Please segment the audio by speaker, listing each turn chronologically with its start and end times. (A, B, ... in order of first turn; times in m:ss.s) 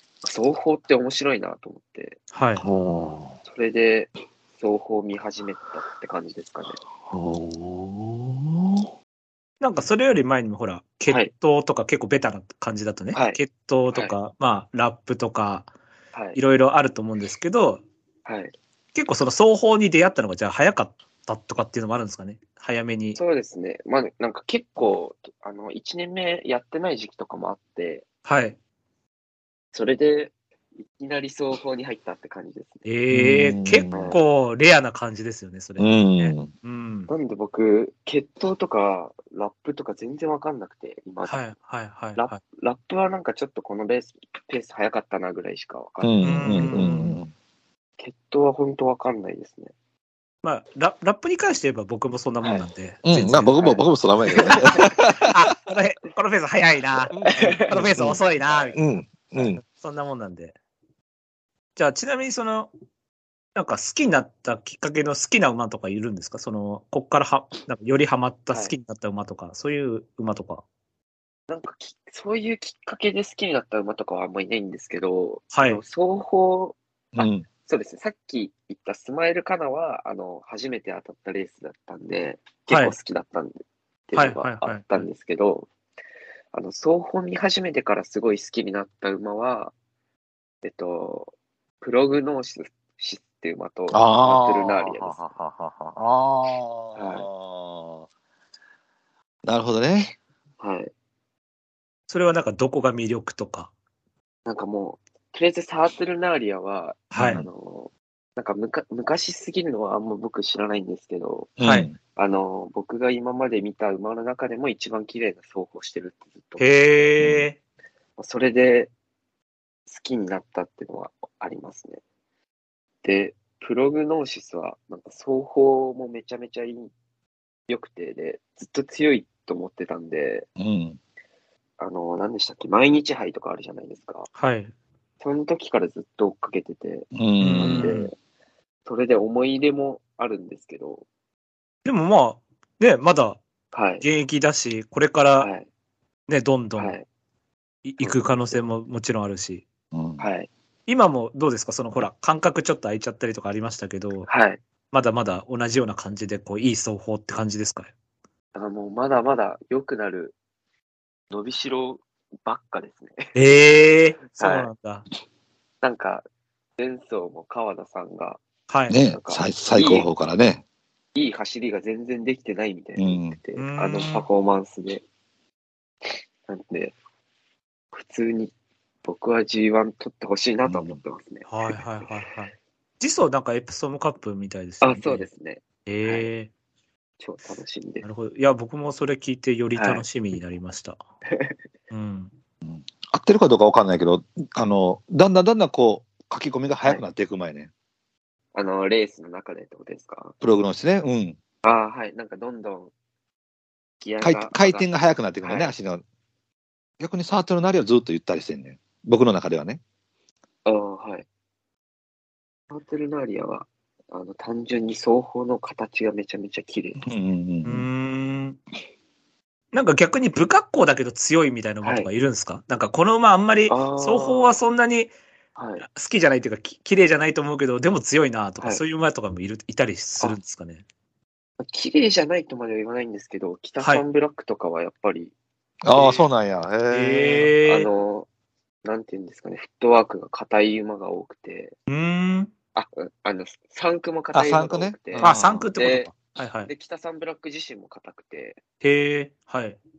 0:00.2-0:02.2 A
0:02.3-0:02.7 B
0:02.6-0:03.4 C
0:03.4-0:06.8 A
0:07.0-0:08.8 C
0:09.6-0:15.7 B
0:13.1-0:13.4 A
0:16.1-0:16.4 A
0:16.3-0:17.8 B
0:18.2-0:18.5 A
0:18.9-0:23.2 B
0:23.2-0:28.0 A
0:28.2-0:28.6 B
0:29.7-0:32.8 A
0:32.8-0:37.1 B
0:33.1-0:34.2 C
0:33.9-0:34.2 A
0:35.8-0:36.5 C
0:37.1-0:41.4 A
0:41.2-0:42.4 B
0:42.2-0:46.9 A
0:46.0-0:47.3 C
0:46.2-0:47.2 B
0:48.0-0:49.7 A
0:50.4-0:53.6 B
0:53.0-0:55.3 C
0:53.6-0:54.9 A
0:54.5-0:57.1 B
0:57.1-0:58.2 C
0:57.2-0:57.7 A
0:57.6-0:58.8 B
0:58.7-0:59.6 C
0:59.4-1:00.5 B
1:01.8-1:02.7 B
1:03.5-1:10.6 B
1:08.5-1:08.7 A
1:11.5-1:25.7 A
1:15.5-1:15.8 B
1:17.1-1:17.5 C
1:22.7-1:23.0 B
1:24.1-1:25.0 B
1:26.5-1:29.7 A
1:30.6-1:35.2 A
1:33.9-1:38.1 C
1:37.0-1:37.3 A
1:39.4-1:40.2 C
1:40.6-1:40.9 A
1:42.1-1:43.7 B
1:44.4-1:51.6 A
1:47.1-1:47.4 B
1:47.2-1:47.4 C
1:51.6-1:52.0 C
1:51.6-1:51.9 B
1:52.2-1:56.7 A
1:56.6-1:57.6 B
1:57.2-1:57.4 C
1:58.2-1:58.9 A
1:59.9-2:02.0 A
2:03.0-2:06.9 A
2:07.7-2:10.5 A
2:10.6-2:11.0 C
2:11.8-2:14.3 A
2:14.3-2:14.7 B
2:15.2-2:18.1 A
2:17.1-2:18.0 C
2:17.4-2:18.1 B
2:18.8-2:21.0 A
2:21.8-2:23.4 B
2:23.7-2:24.0 A
2:24.0-2:25.5 B
2:25.4-2:25.6 A
2:26.3-2:26.9 B
2:26.8-2:27.0 A
2:27.8-2:29.6 B
2:28.0-2:28.6 A
2:29.9-2:30.2 C
2:30.2-2:30.5 A
2:30.9-2:34.3 B
2:34.3-2:34.6 A
2:34.9-2:37.9 B
2:38.5-2:40.3 A
2:41.3-2:43.3 A
2:43.3-2:45.0 B
2:44.4-2:44.7 A
2:45.8-2:46.2 A
2:46.8-2:48.4 A
2:48.7-2:49.0 B
2:48.9-2:50.6 C
2:49.0-2:50.1 A
2:51.1-2:55.0 A
2:53.0-2:53.4 C
2:53.6-2:54.2 B
2:56.5-2:56.9 A
2:57.9-2:58.5 A
2:59.0-3:01.5 A
3:00.7-3:01.0 C
3:01.5-3:05.2 B
3:04.8-3:06.3 A
3:05.8-3:06.5 B
3:07.2-3:08.0 A
3:08.0-3:11.0 B
3:09.8-3:10.0 A
3:11.9-3:12.3 B
3:12.6-3:17.7 C
3:18.5-3:20.3 A
3:20.4-3:21.4 C
3:21.6-3:22.9 A
3:24.0-3:24.9 A
3:24.2-3:26.0 C
3:25.4-3:25.7 A
3:27.0-3:29.8 C
3:30.6-3:31.2 A
3:32.7-3:37.0 A
3:37.0-3:37.9 C
3:37.6-3:38.6 B
3:39.7-3:45.1 B
3:41.8-3:42.1 A
3:43.7-3:44.6 A
3:45.6-3:45.8 A
3:45.8-3:50.8 B
3:51.6-3:55.3 A
3:55.8-3:57.5 C
3:55.9-3:56.2 A
3:56.9-3:57.9 B
3:57.6-3:58.3 A
3:58.8-4:01.8 A
4:01.9-4:02.5 B
4:02.7-4:06.1 A
4:04.3-4:05.7 C
4:05.2-4:06.7 B
4:06.7-4:08.6 A
4:08.8-4:09.8 B